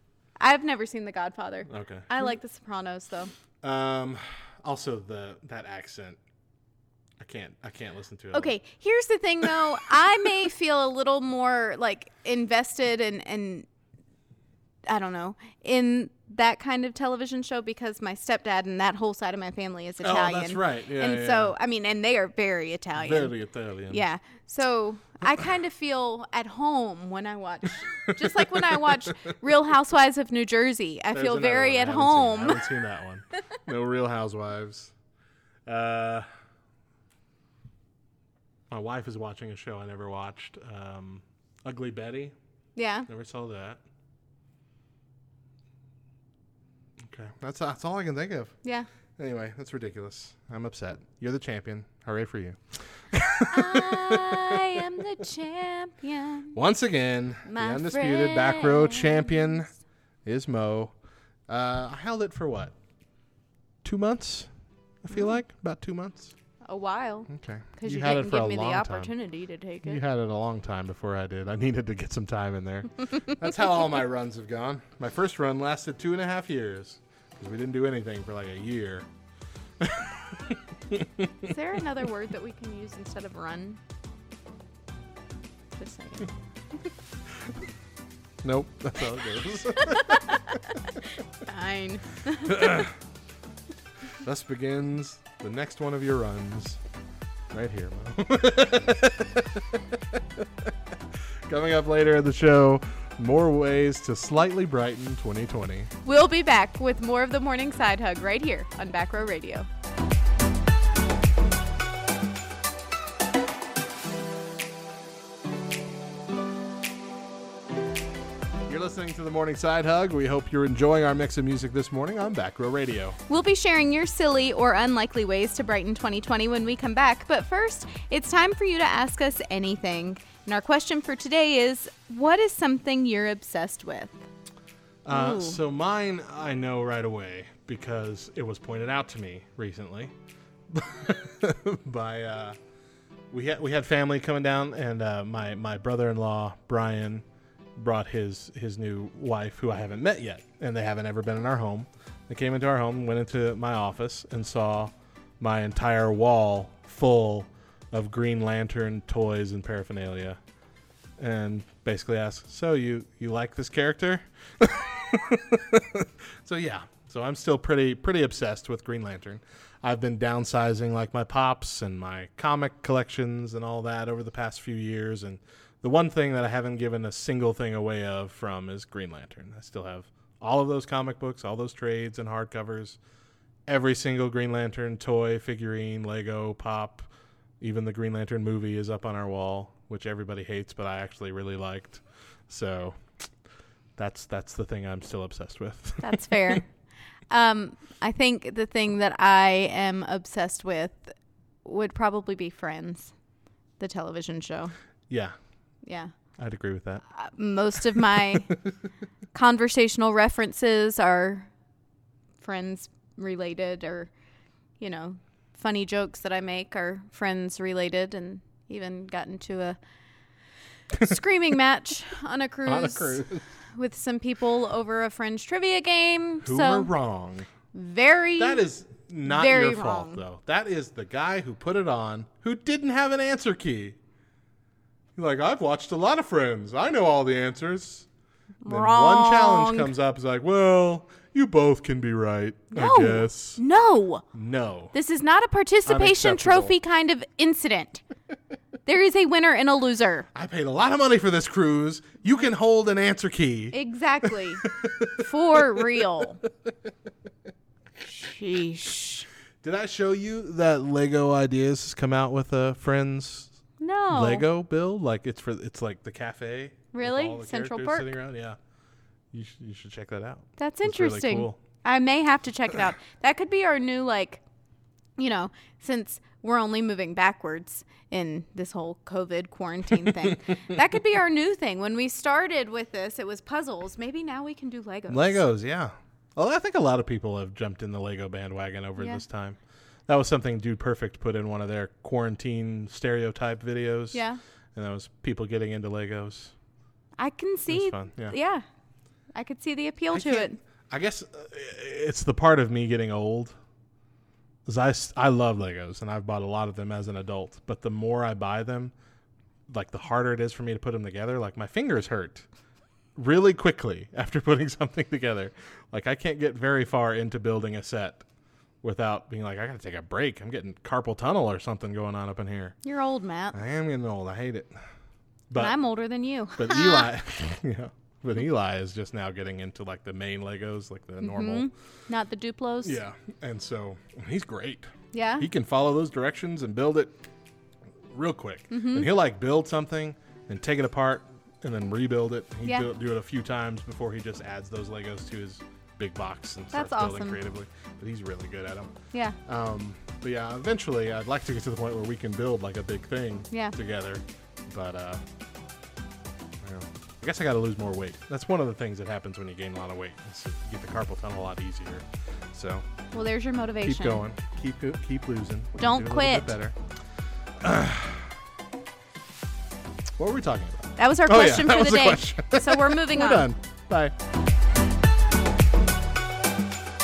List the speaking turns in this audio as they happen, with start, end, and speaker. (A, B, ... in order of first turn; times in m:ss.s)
0:00.4-0:03.3 A
0:01.7-0:02.1 B
0:03.6-0:06.2 B
0:07.2-0:08.5 B
0:08.3-0:13.6 A
0:14.9-0:23.3 A
0:20.0-0:21.5 B
0:23.0-0:24.0 B
0:23.9-0:32.7 A
0:31.1-0:34.9 B
0:35.6-0:36.2 B
0:38.7-0:42.3 B
0:42.8-0:43.1 A
0:43.1-0:43.8 B
0:47.1-0:48.5 B
0:49.2-0:54.6 B
0:53.5-0:56.6 A
0:56.5-0:59.7 B
0:57.4-0:59.7 A
1:00.2-1:00.9 B
1:01.5-1:02.7 B
1:03.8-1:04.5 B
1:05.0-1:06.3 B
1:06.6-1:10.0 A
1:07.3-1:09.1 B
1:09.8-1:19.1 B
1:19.8-1:21.3 B
1:21.5-1:23.8 A
1:25.8-1:26.3 A
1:28.4-1:30.6 B
1:31.4-1:32.8 A
1:32.4-1:33.0 B
1:34.2-1:36.8 B
1:37.5-1:40.4 B
1:41.5-1:45.9 B
1:46.0-1:49.7 A
1:58.7-2:03.2 B
2:03.3-2:14.2 A
2:15.0-2:20.1 B
2:15.1-2:15.6 A
2:20.7-2:22.6 B
2:23.3-2:27.2 B
2:27.8-2:40.4 B
2:41.2-3:03.0 B
3:03.7-3:07.1 B
3:07.6-3:13.0 B
3:14.0-3:16.6 B
3:16.0-3:16.7 A
3:17.3-3:23.1 A
3:23.8-3:24.7 A
3:25.1-3:25.3 B
3:25.8-3:26.1 A
3:26.4-3:27.0 B
3:27.1-3:28.5 A
3:29.3-3:31.5 A
3:32.4-3:34.1 A
3:34.8-3:39.8 A
3:41.0-3:43.2 A
3:42.6-3:43.4 B
3:43.7-3:46.9 A
3:46.4-3:47.5 B
3:47.7-3:48.6 A
3:48.4-3:54.0 B
3:49.2-3:50.2 A
3:55.2-3:58.1 B
3:58.6-3:59.9 A
3:58.6-4:03.6 B
4:02.7-4:04.2 A
4:04.3-4:04.9 B
4:04.9-4:08.0 A
4:05.8-4:06.8 B
4:08.8-4:10.3 A
4:10.3-4:13.8 B
4:13.7-4:14.6 A
4:14.6-4:15.2 B
4:15.2-4:16.4 A
4:18.0-4:19.3 A
4:19.6-4:23.5 B
4:23.8-4:24.4 A
4:24.1-4:28.6 B
4:26.9-4:28.1 A
4:29.3-4:31.6 B
4:30.6-4:34.4 A
4:35.2-4:45.4 A
4:45.1-4:54.2 B
4:49.0-4:49.2 A
4:54.1-4:54.4 A
4:54.8-4:56.5 B
4:57.2-4:58.6 A
4:57.7-4:58.4 B
4:59.3-5:00.6 A
5:00.1-5:03.6 B
5:04.6-5:08.9 B
5:09.7-5:12.4 B
5:13.2-5:18.2 B
5:18.8-5:22.8 B
5:22.8-5:23.6 A
5:23.5-5:24.8 B
5:25.5-5:25.8 B
5:25.5-5:27.1 A
5:26.6-5:31.7 B
5:31.2-5:33.0 A
5:32.8-5:37.1 B
5:35.1-5:35.5 A
5:38.1-5:48.9 B
5:38.7-5:39.1 A
5:46.7-5:47.4 A
5:49.4-5:55.2 B
5:56.6-6:02.8 B
6:03.1-6:04.2 A
6:03.8-6:06.8 B
6:05.8-6:06.5 A
6:07.6-6:08.3 B
6:10.2-6:14.1 B
6:11.0-6:13.5 A